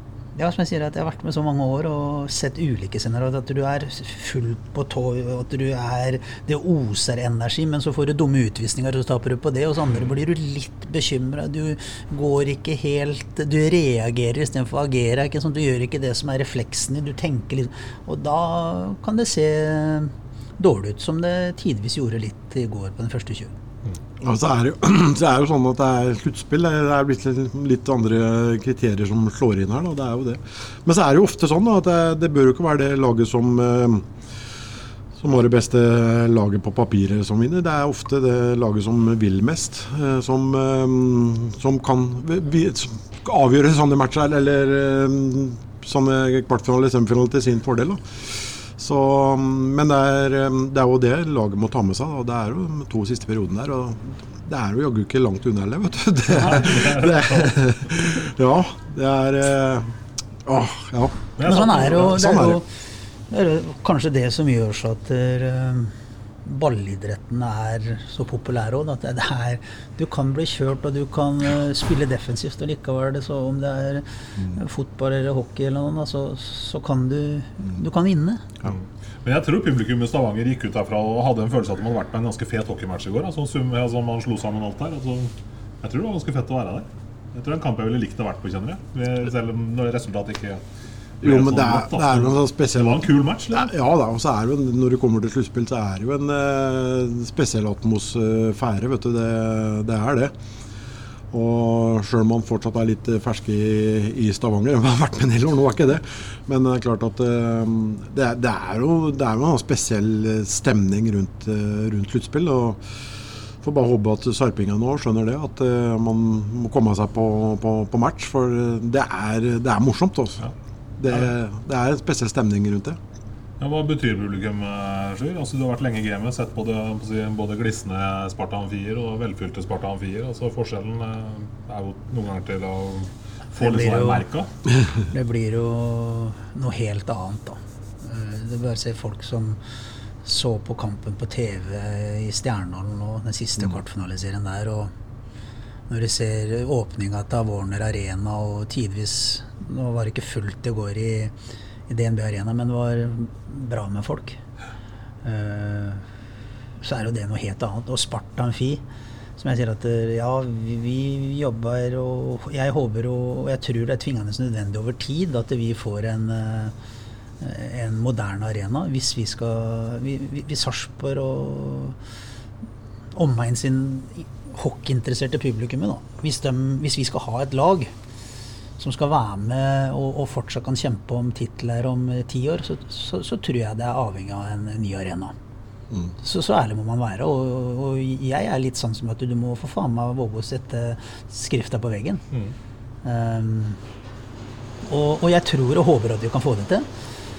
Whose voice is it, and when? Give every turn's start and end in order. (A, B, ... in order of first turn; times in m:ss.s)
0:00.4-0:23.5 A
0:24.2-0:34.1 B
0:35.2-0:59.9 B
0:56.3-0:57.6 C
1:00.4-1:02.6 B
1:01.4-1:02.5 C
1:01.4-1:02.7 A
1:03.3-1:05.9 A
1:06.4-1:18.4 A
1:18.6-1:30.6 C
1:31.2-1:33.7 C
1:31.2-1:40.4 B
1:41.3-1:52.8 B
1:53.6-2:00.4 B
2:01.0-2:03.0 B
2:03.6-2:14.5 C
2:13.6-2:14.3 A
2:15.0-2:19.6 A
2:20.2-2:24.9 A
2:25.9-2:31.3 A
2:31.9-2:34.4 A
2:35.2-2:36.0 A
2:36.8-2:38.8 A
2:39.4-2:46.7 A
2:47.4-2:52.0 A
2:53.2-2:57.9 A
2:58.8-3:05.3 A
3:06.2-3:12.2 A
3:13.0-3:13.8 A
3:14.8-3:16.9 A